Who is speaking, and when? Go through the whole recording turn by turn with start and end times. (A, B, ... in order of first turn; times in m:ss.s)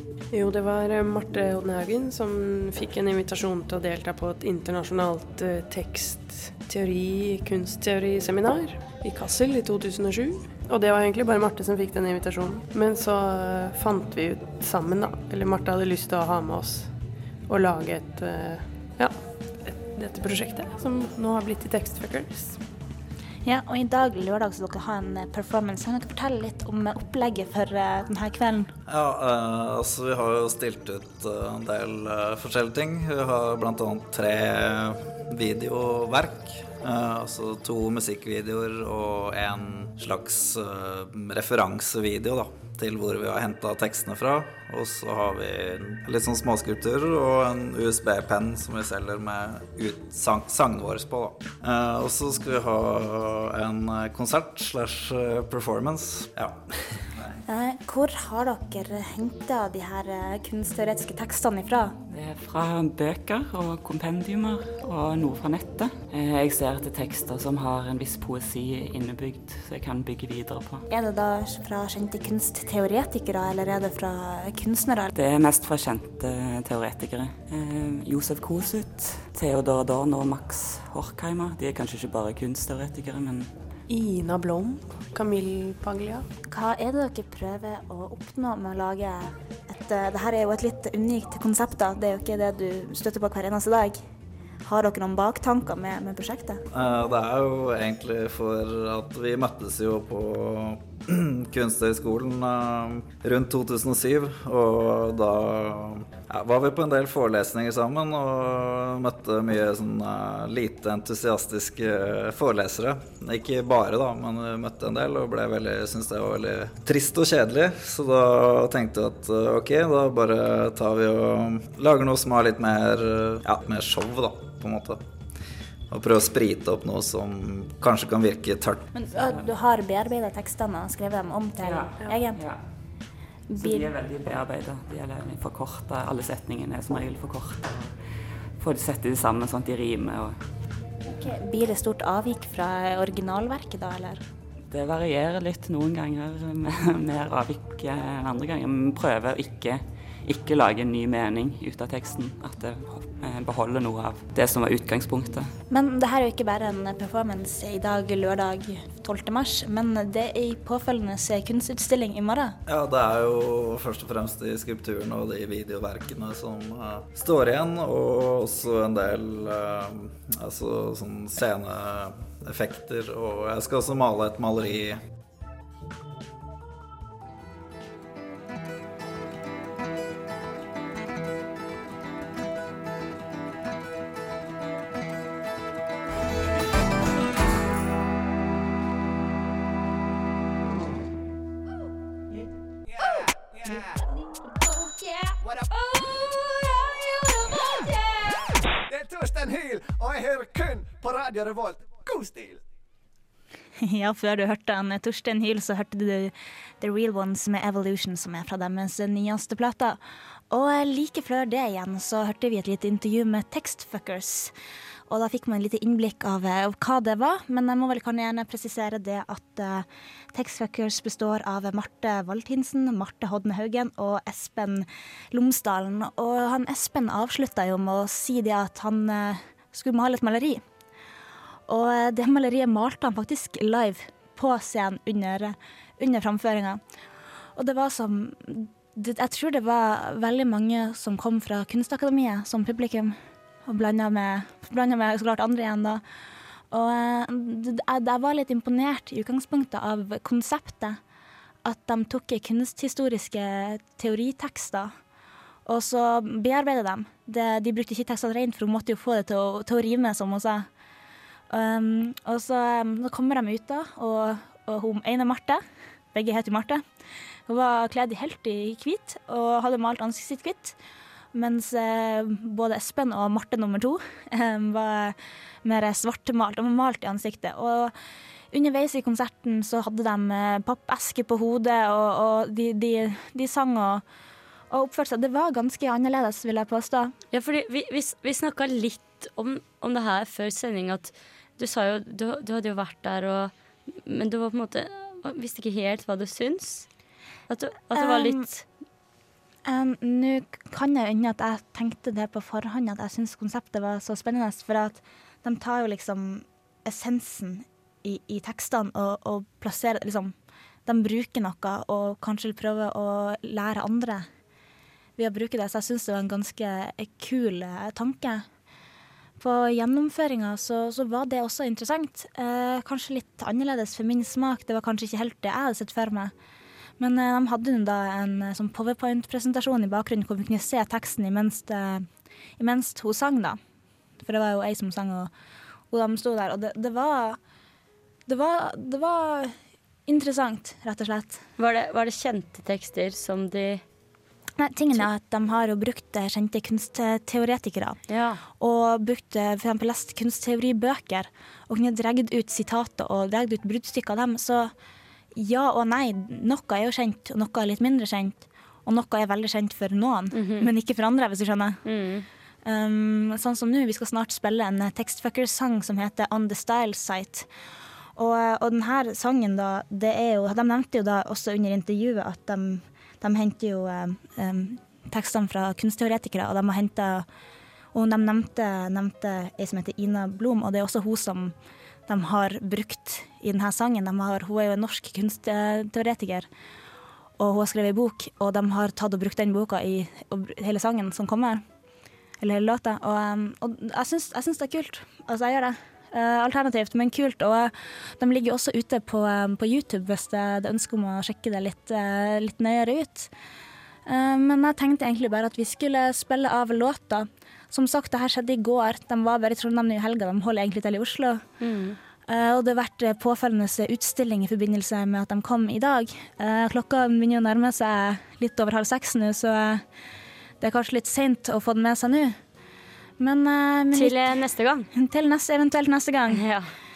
0:00.3-0:22.6 A
0:23.4-0:28.7 B
0:28.9-0:57.4 C
0:57.4-1:02.0 B
1:02.1-1:10.8 D
1:10.9-1:15.1 B
1:15.1-1:23.5 D
1:23.9-1:26.3 A
1:26.5-1:34.0 B
1:34.6-1:36.6 B
1:36.7-2:05.0 C
2:05.9-2:08.9 C
2:08.9-2:12.4 B
2:11.6-2:12.6 D
2:13.5-2:13.9 B
2:13.6-2:17.9 D
2:18.6-2:20.4 D
2:21.0-2:24.2 B
2:24.7-2:35.5 D
2:35.7-2:42.6 B
2:42.6-2:55.0 C
3:13.0-3:13.9 E
3:15.4-3:16.0 E
3:18.9-3:22.6 E
3:23.8-3:30.0 B
3:30.5-3:34.5 B
3:35.1-3:50.6 B
3:51.7-3:56.8 B
3:57.6-4:06.0 B
4:06.7-4:11.0 B
4:11.6-4:14.9 B
4:15.6-4:20.7 B
4:21.5-4:26.8 B
4:27.5-4:30.8 B
4:31.3-4:37.9 B
4:38.5-4:44.0 B
4:44.7-4:47.1 B
4:47.3-4:56.9 F
4:57.5-4:58.6 F
4:57.9-4:58.6 B
4:59.6-5:10.3 B
5:10.8-5:14.3 B
5:15.2-5:18.4 B
5:19.4-5:26.3 B
5:27.0-5:32.1 B
5:32.6-5:33.6 B
5:34.2-5:35.3 B
5:35.9-5:37.4 B
5:38.2-5:41.4 B
5:41.6-5:43.8 F
5:44.6-5:48.0 B
5:48.1-5:48.4 F
5:48.5-5:54.7 B
5:55.3-6:01.8 B
6:00.3-6:00.7 F
6:01.8-6:02.2 F
6:02.6-6:07.5 B
6:08.2-6:17.3 B
6:17.9-6:21.5 B
6:22.1-6:26.5 B
6:27.4-6:31.6 B
6:32.4-6:43.3 B
6:44.0-6:51.4 B
6:51.6-6:52.0 F
6:52.2-6:59.8 B
7:00.6-7:02.4 B
7:03.2-7:04.3 B
7:03.9-7:04.9 F
7:04.9-7:06.4 B
7:06.3-7:06.7 F